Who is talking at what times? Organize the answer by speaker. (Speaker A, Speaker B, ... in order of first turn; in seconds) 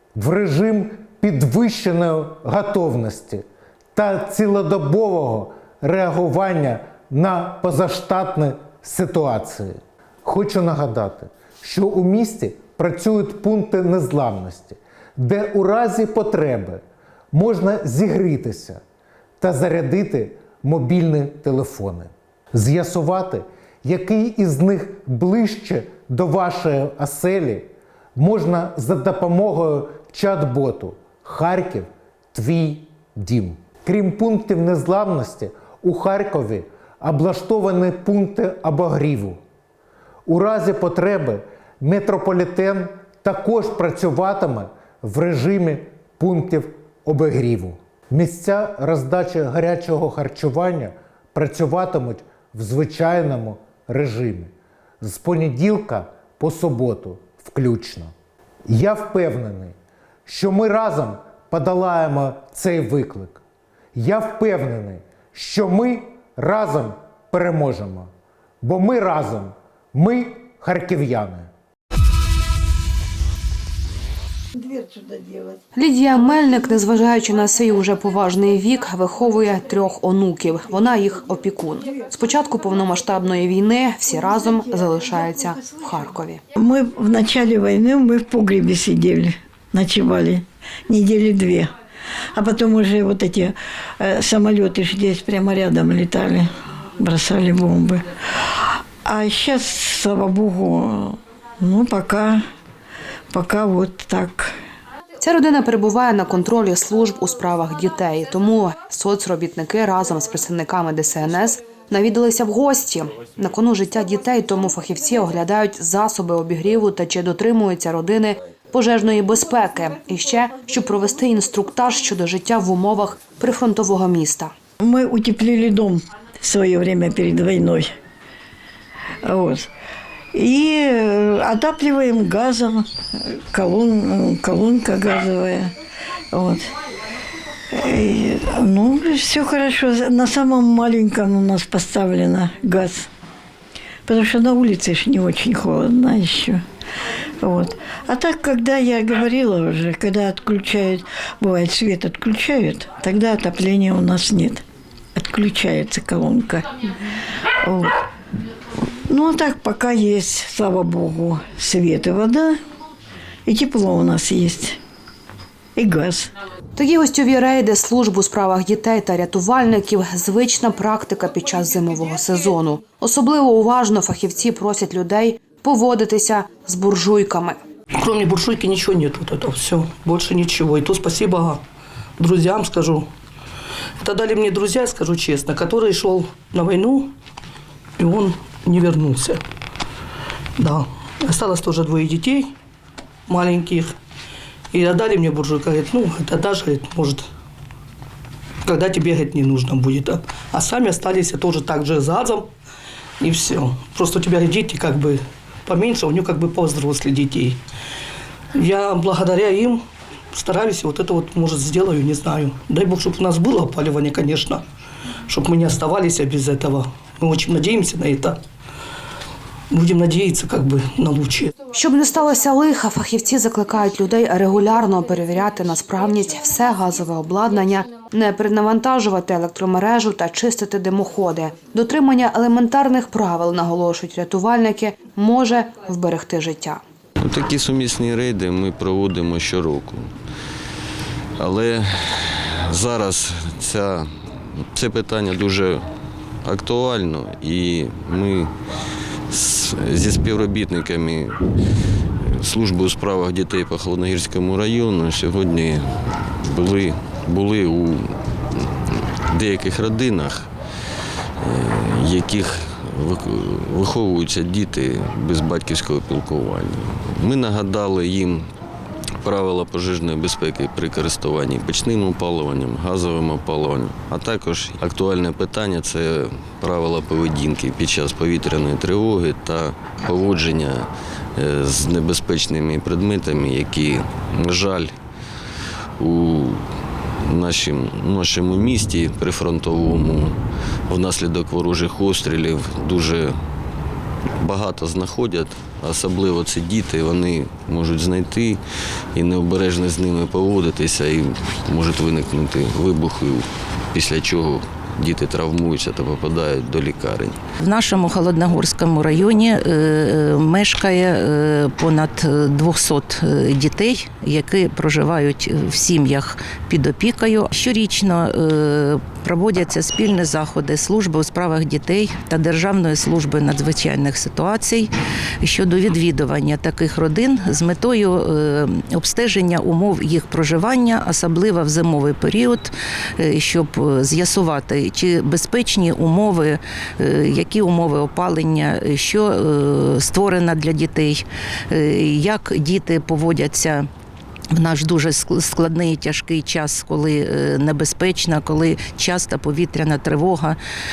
Speaker A: 0.2-3.4, 4.0-16.8, 17.3-18.8, 19.4-39.4, 40.3-54.5, 55.0-58.1, 58.7-59.7, 60.3-63.4, 64.0-68.1, 68.6-71.5
Speaker B: 74.8-75.4, 88.1-89.0, 178.0-181.6, 182.2-183.1, 184.0-187.1, 188.0-189.4, 190.6-192.5, 193.3-194.0, 194.7-197.3, 198.7-202.5, 203.2-207.6, 208.6-209.8, 210.3-214.6, 215.3-218.4, 219.7-221.5
Speaker C: 75.8-86.4, 105.2-124.5, 166.8-177.6, 221.7-236.8
Speaker D: 86.7-91.7, 92.3-96.5, 97.0-98.0, 99.1-101.1, 101.7-102.4, 103.3-104.5, 124.9-127.9, 129.3-129.6, 130.4-132.8, 133.6-135.7, 136.3-136.6, 137.9-143.1, 144.1-146.6, 147.4-154.6, 155.2-156.6, 159.1-162.5, 163.5-164.8, 165.8-166.3, 237.3-237.6, 243.2-243.8, 247.3-247.7, 249.4-250.8, 262.8-263.1, 292.7-293.1, 296.7-297.1
Speaker E: 237.2-240.0, 241.4-244.1, 244.8-245.8, 246.5-248.5, 249.3-251.3, 252.4-255.8, 256.6-258.0, 259.4-260.4, 261.6-268.4, 269.2-280.9, 281.4-284.9, 286.0-286.6, 287.3-290.3, 290.9-293.3, 294.4-298.6, 299.1-307.4
Speaker F: 307.6-324.9, 325.4-343.9, 344.5-350.6